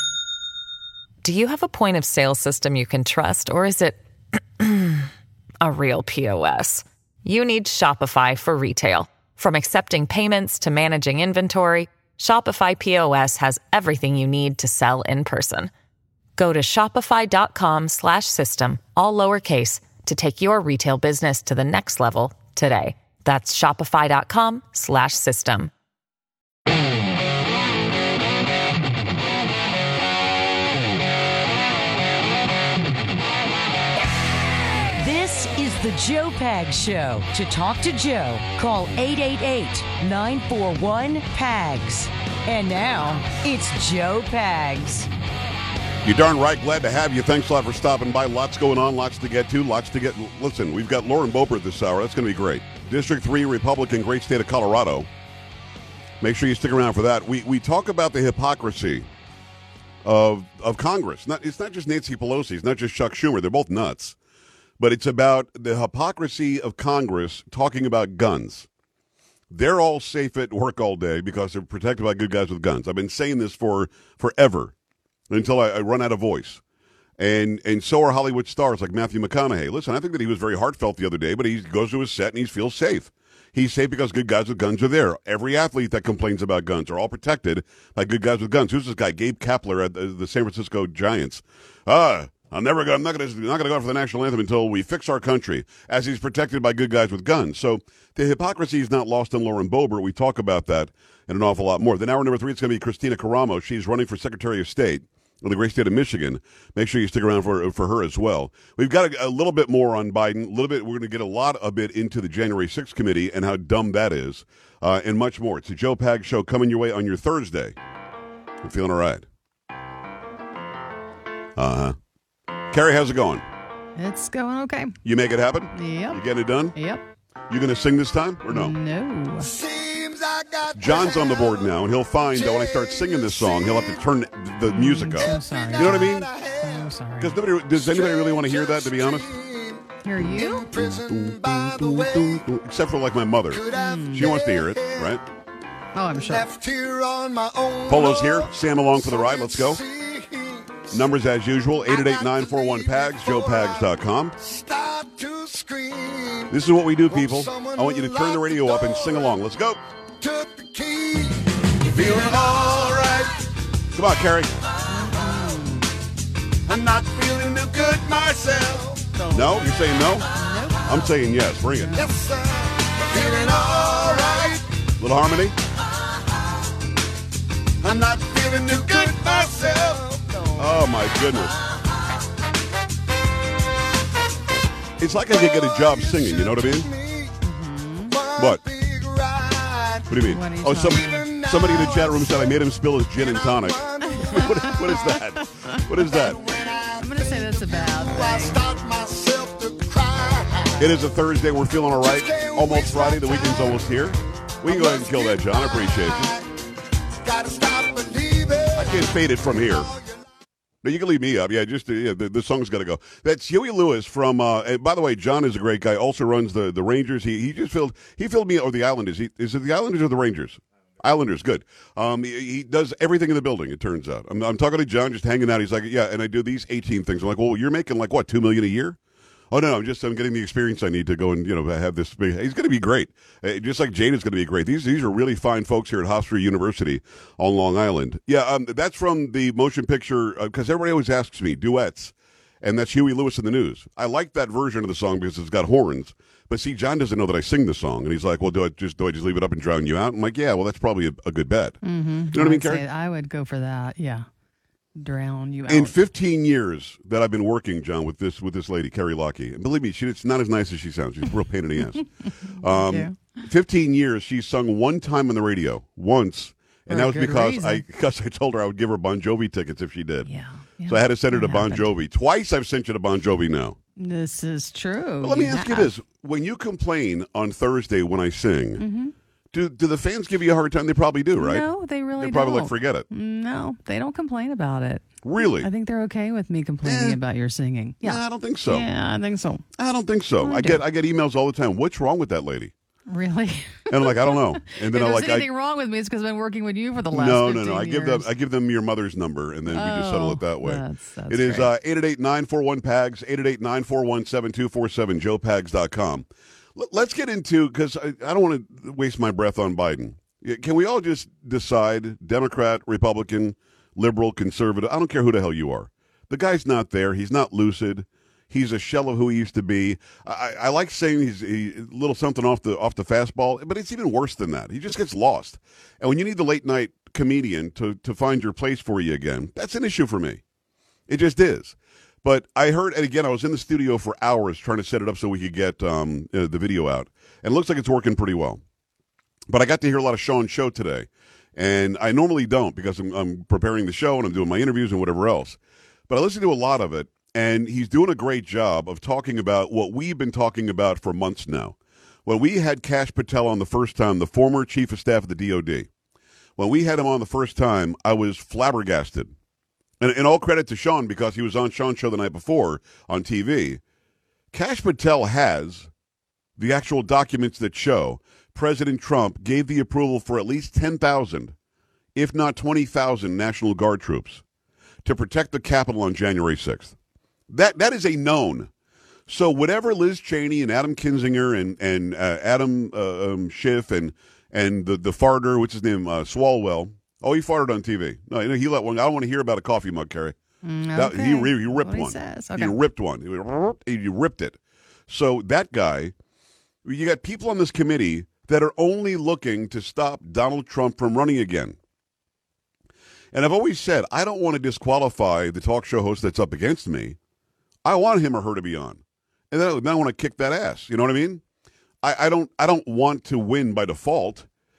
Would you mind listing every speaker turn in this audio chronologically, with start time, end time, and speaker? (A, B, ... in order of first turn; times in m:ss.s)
0:01.2-0:04.0 A
0:04.6-0:05.1 A
0:05.6-0:15.7 A
0:16.4-0:25.7 A
0:35.0-0:45.1 B
0:46.0-0:55.1 C
0:56.2-0:59.1 C
1:00.0-1:04.2 C
1:04.8-1:08.7 C
1:09.5-1:14.7 C
1:15.3-1:16.6 C
1:17.2-1:57.8 C
1:58.6-1:59.2 C
2:01.6-2:02.0 C
2:02.7-2:03.5 C
2:04.0-2:05.0 D
2:05.0-2:06.8 C
2:05.7-2:06.2 D
2:06.7-2:07.0 D
2:07.5-2:08.7 C
2:08.5-2:09.5 D
2:09.4-2:11.8 E
2:10.8-2:16.3 C
2:12.3-2:14.0 E
2:14.7-2:17.4 D
2:15.1-2:17.0 E
2:17.2-2:19.3 C
2:17.7-2:22.5 E
2:20.0-2:20.7 D
2:20.7-2:25.2 C
2:23.5-2:25.2 E
2:23.7-2:24.4 D
2:26.0-2:26.5 D
2:26.2-2:31.0 E
2:27.9-2:29.8 C
2:30.9-2:34.4 C
2:31.9-2:39.4 E
2:36.5-2:39.8 C
2:40.2-2:43.4 E
2:44.0-2:44.5 C
2:44.9-2:45.9 D
2:46.7-2:49.7 E
2:49.3-2:50.3 C
2:50.4-2:51.1 D
2:50.8-2:52.1 C
2:51.6-2:52.2 D
2:51.9-2:54.6 E
2:55.0-2:55.6 C
2:57.8-3:00.6 E
2:58.7-3:00.0 C
3:00.6-3:01.6 C
3:05.0-3:06.9 C
3:05.3-3:07.4 E
3:07.4-3:08.2 D
3:08.1-3:10.1 E
3:08.4-3:08.6 C
3:10.1-3:16.4 C
3:10.2-3:11.3 D
3:10.8-3:15.2 E
3:14.1-3:15.0 D
3:15.9-3:21.0 E
3:17.0-3:18.6 D
3:20.8-3:26.3 C
3:21.9-3:24.1 E
3:24.6-3:26.5 E
3:27.2-3:30.2 E
3:28.8-3:29.9 C
3:30.8-3:49.0 C
3:49.5-4:11.8 C
4:11.8-4:14.3 D
4:12.3-4:12.8 C
4:15.0-4:16.0 D
4:15.7-4:30.3 C
4:22.6-4:23.4 D
4:26.9-4:27.8 D
4:30.3-4:31.9 D
4:30.9-4:33.8 C
4:34.0-4:35.9 D
4:35.2-4:38.8 C
4:38.8-4:39.1 D
4:39.5-4:43.1 C
4:41.4-4:49.6 D
4:45.2-4:45.7 C
4:46.8-4:47.2 C
4:48.0-4:48.9 C
4:49.8-4:52.7 C
4:50.4-4:50.8 D
4:53.1-4:58.3 D
4:53.9-4:55.5 C
4:57.1-5:30.4 C
4:59.7-5:01.7 D
5:31.1-5:38.6 C
5:39.5-5:45.6 C
5:46.1-5:55.9 C
5:56.6-5:59.3 C
6:00.0-6:03.8 C
6:04.5-6:05.9 C
6:06.6-6:11.5 C
6:12.2-6:14.4 C
6:15.0-6:17.0 C
6:17.5-6:18.7 C
6:19.3-6:30.4 C
6:30.6-6:32.7 D
6:31.0-6:36.1 C
6:36.8-6:41.8 C
6:43.3-6:47.2 C
6:47.8-6:51.4 C
6:52.0-6:54.5 C